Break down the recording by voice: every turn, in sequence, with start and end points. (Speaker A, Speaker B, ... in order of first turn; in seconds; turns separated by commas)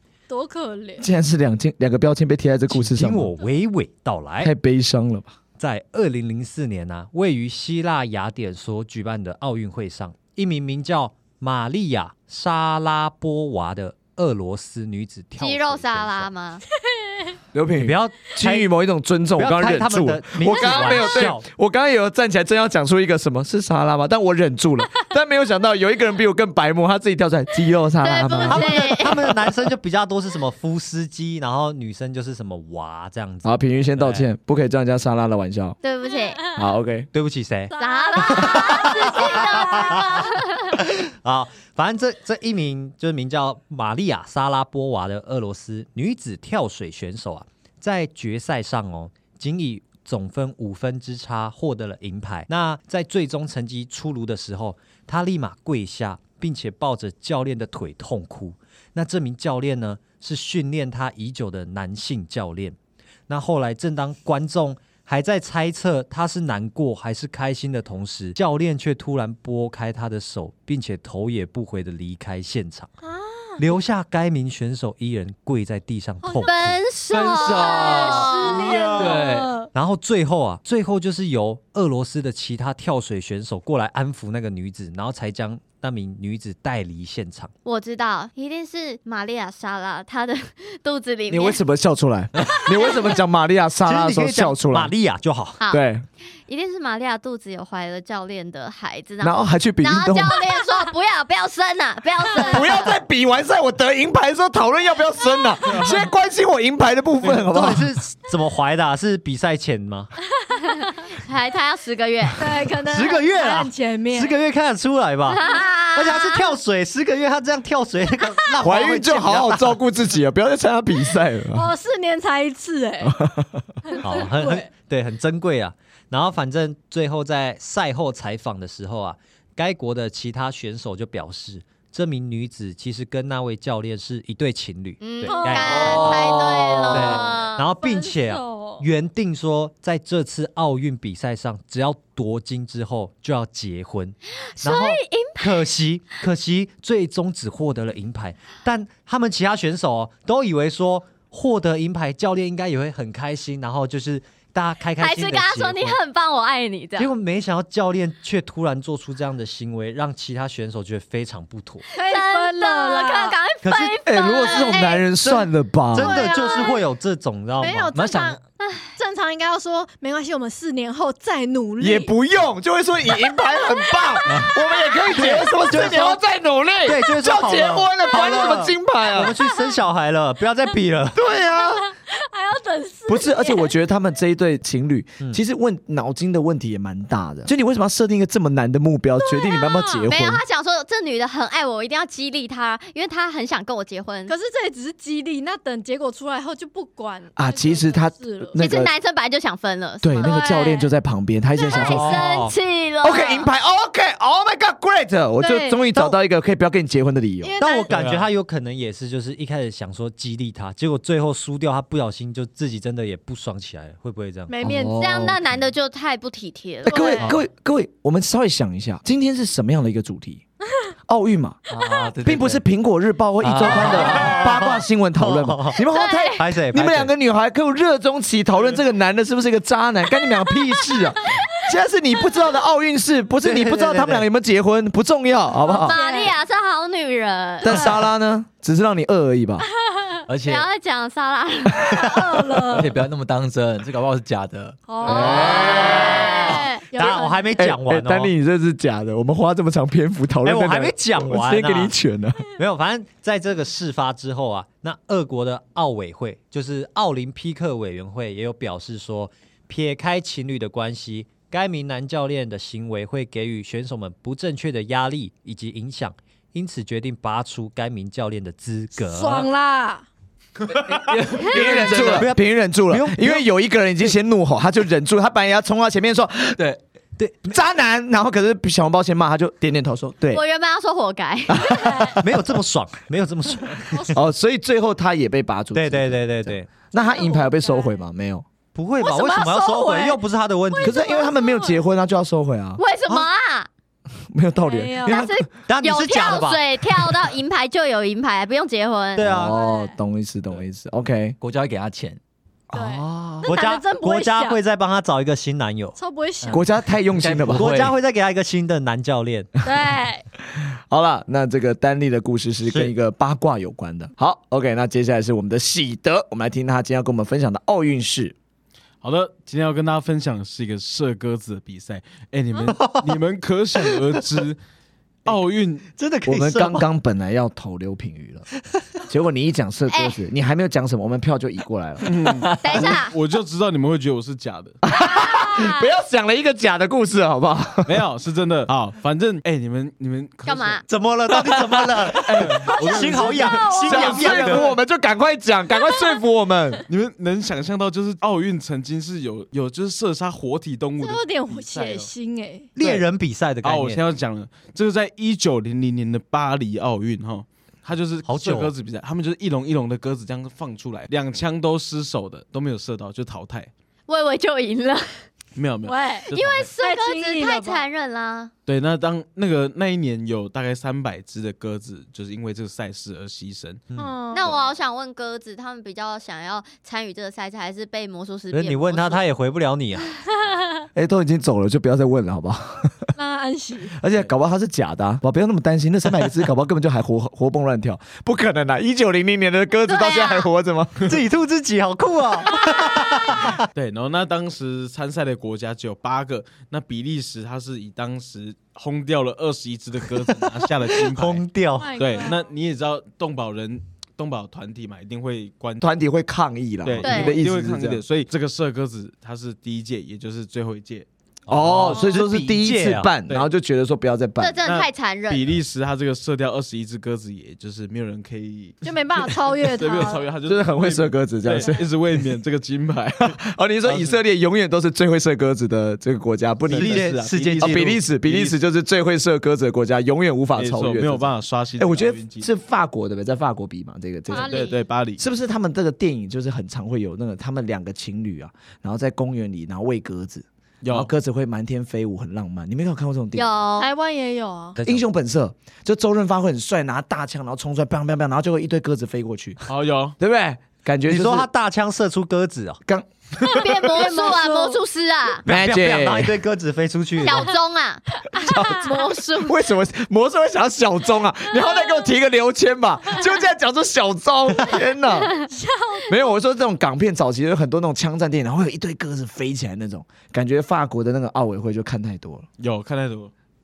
Speaker A: 0.3-1.1, Speaker B: 1.0-3.3, Speaker C: 2.7-4.5, Speaker B: 4.4-5.3, Speaker C: 5.6-16.3, Speaker D: 15.4-16.6, Speaker B: 17.5-28.7, Speaker C: 17.8-18.7, Speaker C: 19.4-21.4, Speaker D: 28.0-29.3, Speaker C: 28.4-34.3, Speaker B: 33.4-35.8, Speaker D: 35.8-36.4, Speaker A: 36.2-36.4, Speaker B: 36.5-37.1, Speaker C: 37.1-62.8, Speaker A: 37.7-40.3, Speaker D: 37.8-40.8, Speaker C: 63.3-72.9, Speaker A: 73.0-73.6, Speaker C: 73.6-76.8, Speaker A: 76.2-76.7, Speaker D: 76.4-79.0, Speaker E: 77.1-79.5, Speaker A: 77.6-79.7, Speaker C: 79.7-87.5, Speaker D: 87.7-91.6, Speaker B: 91.3-94.9, Speaker D: 92.5-93.0, Speaker C: 93.8-95.6, Speaker B: 95.7-96.0, Speaker D: 96.5-102.9, Speaker B: 99.2-100.4, Speaker A: 102.4-102.6, Speaker B: 102.4-107.9, Speaker C: 107.5-110.1, Speaker D: 110.7-112.4, Speaker A: 112.4-114.4, Speaker C: 112.9-119.8, Speaker D: 115.3-116.5, Speaker B: 118.6-121.7, Speaker A: 121.5-123.2, Speaker B: 123.0-123.6, Speaker A: 123.9-124.7, Speaker C: 124.0-156.0, Speaker D: 135.0-137.7, Speaker A: 135.2-136.3, Speaker A: 137.8-138.8, Speaker D: 144.6-145.6, Speaker D: 155.0-157.1, Speaker C: 157.0-161.9, Speaker A: 161.9-163.4, Speaker D: 162.0-165.0, Speaker C: 163.6-164.0, Speaker B: 164.1-166.2, Speaker C: 165.2-167.9, Speaker A: 166.0-166.8, Speaker A: 167.6-168.4, Speaker E: 168.0-168.4, Speaker D: 168.6-168.9, Speaker A: 169.0-172.1, Speaker B: 171.8-179.3, Speaker A: 174.1-175.1, Speaker C: 175.1-176.2, Speaker C: 176.8-181.2, Speaker A: 179.4-179.8, Speaker B: 181.2-181.9, Speaker A: 181.3-183.7, Speaker B: 183.1-190.4, Speaker A: 189.5-190.1, Speaker D: 190.1-194.3, Speaker A: 194.3-198.6, Speaker B: 197.4-198.9, Speaker D: 198.6-200.4, Speaker B: 200.0-202.2, Speaker A: 200.2-200.9, Speaker D: 201.7-203.5, Speaker C: 201.7-202.5, Speaker B: 203.0-207.6, Speaker A: 205.4-206.0, Speaker A: 207.4-208.1, Speaker C: 207.6-214.6, Speaker F: 207.9-208.3, Speaker A: 214.5-215.3, Speaker B: 214.6-215.4, Speaker D: 215.0-217.3, Speaker A: 216.9-217.3, Speaker B: 216.9-220.4, Speaker B: 221.1-221.6, Speaker E: 221.7-222.6, Speaker B: 222.2-236.0, Speaker E: 223.4-224.4, Speaker C: 223.6-225.8, Speaker D: 225.9-226.4, Speaker C: 226.4-227.1, Speaker C: 233.4-234.3, Speaker A: 235.7-236.4, Speaker D: 235.8-237.8, Speaker B: 237.6-239.7, Speaker A: 237.7-238.0, Speaker E: 240.3-240.7, Speaker D: 240.5-242.1, Speaker A: 241.9-242.9, Speaker E: 242.7-245.2, Speaker A: 244.9-247.6, Speaker B: 245.1-246.2, Speaker D: 245.1-246.9, Speaker C: 245.7-248.3, Speaker B: 247.6-252.4, Speaker C: 250.4-251.9, Speaker C: 252.5-269.5, Speaker A: 269.0-270.1, Speaker E: 270.7-272.3, Speaker B: 271.4-276.6, Speaker C: 271.6-273.4, Speaker B: 277.4-280.4, Speaker D: 280.3-282.1, Speaker B: 281.5-282.2, Speaker A: 281.7-282.2, Speaker C: 282.2-284.1, Speaker A: 283.9-284.2, Speaker B: 284.1-288.5, Speaker C: 285.7-286.7, Speaker A: 286.9-288.0, Speaker C: 288.7-291.0, Speaker A: 289.0-291.8, Speaker B: 290.8-292.8, Speaker D: 292.8-293.7, Speaker B: 294.3-295.4, Speaker A: 294.6-295.3, Speaker D: 295.1-299.3, Speaker C: 295.7-297.1, Speaker C: 299.2-299.6, Speaker B: 299.2-301.4, Speaker A: 299.4-300.0, Speaker E: 301.4-302.2, Speaker B: 302.7-303.5, Speaker A: 302.7-304.6, Speaker C: 303.4-306.5, Speaker A: 306.0-306.6, Speaker B: 306.5-307.9, Speaker E: 307.1-307.9, Speaker C: 307.5-309.5, Speaker A: 309.6-310.2, Speaker B: 310.9-318.4, Speaker C: 312.7-312.9, Speaker F: 319.0-324.6, Speaker C: 322.7-323.2, Speaker C: 323.8-324.2, Speaker F: 325.2-325.9, Speaker C: 326.0-326.9, Speaker B: 326.3-328.5, Speaker B: 329.0-332.1, Speaker D: 329.9-330.2, Speaker F: 332.0-334.8, Speaker D: 332.6-333.1, Speaker B: 334.9-338.0, Speaker A: 335.1-335.9, Speaker F: 337.9-340.8, Speaker D: 340.4-340.8, Speaker C: 340.9-344.7, Speaker B: 342.2-343.3, Speaker F: 342.3-344.7, Speaker A: 342.6-344.6, Speaker B: 343.8-346.8, Speaker F: 346.9-352.1, Speaker A: 351.0-352.7, Speaker C: 352.8-354.0, Speaker F: 352.8-353.1, Speaker F: 353.6-363.7, Speaker C: 358.2-358.7, Speaker D: 364.1-365.2, Speaker F: 365.6-366.7, Speaker A: 365.9-367.9, Speaker D: 366.3-368.5, Speaker F: 368.7-373.9, Speaker A: 373.9-374.6, Speaker D: 374.3-379.2, Speaker C: 378.5-380.2, Speaker B: 380.9-383.0, Speaker A: 383.2-383.9, Speaker B: 384.0-391.1, Speaker D: 389.9-390.4, Speaker C: 391.1-393.6, Speaker F: 393.7-405.8, Speaker C: 400.3-402.0, Speaker A: 401.8-402.5, Speaker B: 405.8-408.0, Speaker F: 406.9-412.0, Speaker D: 407.0-407.4, Speaker B: 411.5-414.6, Speaker C: 411.6-413.1, Speaker D: 414.4-415.5, Speaker F: 414.6-424.2, Speaker A: 418.8-420.3, Speaker B: 420.5-421.9, Speaker A: 421.6-421.8, Speaker B: 423.2-434.7, Speaker C: 426.7-428.0, Speaker F: 426.7-428.6, Speaker F: 430.6-432.5, Speaker A: 434.3-434.8, Speaker F: 434.3-435.2, Speaker B: 435.2-443.5, Speaker F: 440.8-441.1, Speaker D: 443.4-443.9, Speaker A: 443.8-444.8, Speaker C: 444.8-445.0, Speaker B: 444.8-449.6, Speaker F: 449.7-450.2, Speaker B: 450.2-451.5, Speaker C: 451.1-452.8, Speaker B: 452.9-453.7, Speaker A: 453.4-454.8, Speaker D: 453.6-455.4, Speaker B: 455.4-456.4, Speaker C: 455.4-457.5, Speaker D: 457.2-459.5, Speaker A: 458.3-459.1, Speaker B: 458.4-465.3, Speaker A: 465.5-466.3, Speaker B: 466.1-472.5, Speaker F: 472.6-473.3